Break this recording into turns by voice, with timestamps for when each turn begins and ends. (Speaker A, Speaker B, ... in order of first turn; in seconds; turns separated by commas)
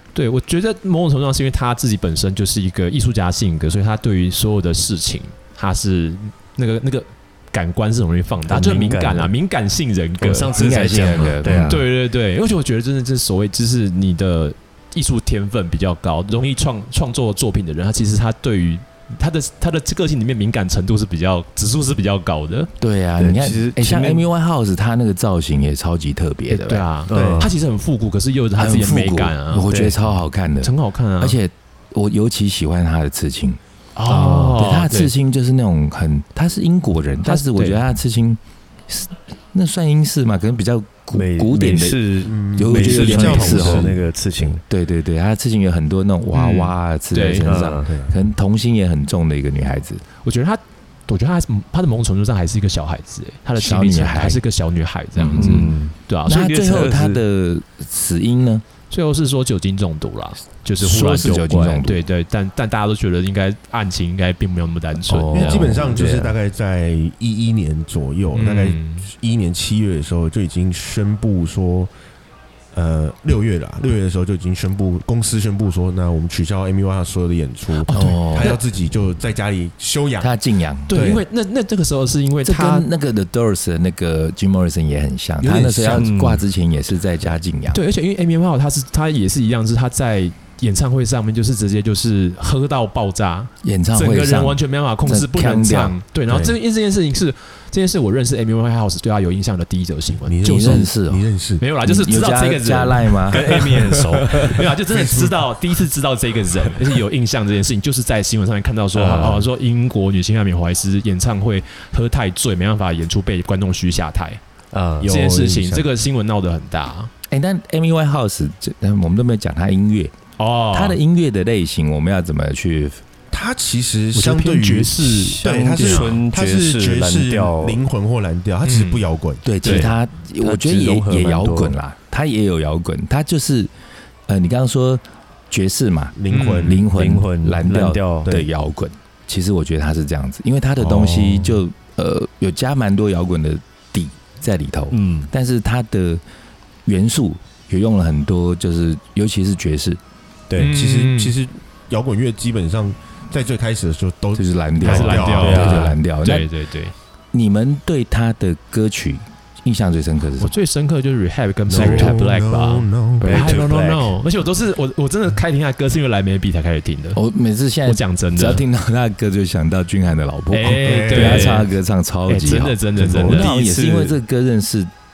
Speaker A: 0.1-22.7, Speaker B: 8.5-9.3, Speaker B: 10.2-11.9, Speaker C: 10.6-11.9, Speaker C: 22.8-26.9, Speaker B: 23.2-24.3, Speaker A: 26.5-29.7, Speaker B: 27.1-27.5, Speaker D: 27.1-27.5, Speaker C: 28.6-50.0, Speaker B: 29.7-30.0, Speaker A: 30.6-31.4, Speaker A: 34.0-35.1, Speaker A: 37.2-37.8, Speaker B: 41.1-44.6, Speaker D: 42.3-44.0, Speaker A: 46.3-47.6, Speaker B: 47.4-47.9, Speaker D: 47.9-48.1, Speaker A: 50.2-56.5, Speaker C: 53.6-54.4, Speaker C: 55.2-55.7, Speaker B: 55.3-57.2, Speaker C: 56.3-58.6, Speaker A: 58.9-65.8, Speaker C: 60.8-62.0, Speaker C: 65.0-66.1, Speaker D: 65.3-71.9, Speaker B: 65.8-66.4, Speaker A: 68.3-69.1, Speaker D: 72.7-80.4, Speaker A: 77.8-78.6, Speaker C: 77.9-78.6, Speaker C: 80.2-81.0, Speaker A: 80.9-82.9, Speaker D: 80.9-81.2, Speaker C: 82.4-87.8, Speaker D: 85.4-86.1, Speaker B: 85.9-86.4, Speaker A: 87.7-100.9, Speaker C: 93.6-96.5, Speaker D: 100.3-101.6, Speaker C: 100.4-101.3, Speaker A: 101.6-103.7, Speaker C: 101.8-103.6, Speaker B: 103.3-104.6, Speaker A: 104.3-114.4, Speaker D: 104.4-105.4, Speaker B: 109.0-109.5, Speaker B: 114.7-115.8, Speaker A: 115.0-117.1, Speaker D: 115.1-115.6, Speaker C: 117.3-120.1, Speaker A: 120.4-121.0, Speaker C: 120.7-123.0, Speaker D: 123.3-129.5, Speaker A: 124.1-126.2, Speaker B: 125.3-127.8, Speaker A: 128.6-129.1, Speaker C: 129.4-133.7, Speaker A: 129.6-129.9, Speaker B: 130.4-131.8, Speaker C: 134.3-146.2, Speaker D: 136.2-136.9, Speaker A: 136.3-136.8, Speaker B: 136.9-138.3, Speaker D: 140.8-141.6, Speaker B: 144.9-145.3, Speaker C: 146.9-150.0, Speaker B: 150.5-150.8, Speaker D: 150.6-155.8, Speaker A: 150.6-151.3, Speaker C: 154.3-156.5, Speaker A: 154.8-156.9, Speaker B: 155.4-155.9, Speaker C: 157.3-160.5, Speaker A: 160.4-167.2, Speaker B: 161.7-162.1, Speaker D: 161.7-163.3, Speaker B: 163.2-164.1, Speaker C: 163.2-163.6, Speaker C: 167.1-174.9, Speaker A: 167.9-168.6, Speaker A: 170.5-171.7, Speaker D: 170.8-171.6, Speaker A: 172.3-173.5, Speaker B: 173.0-174.2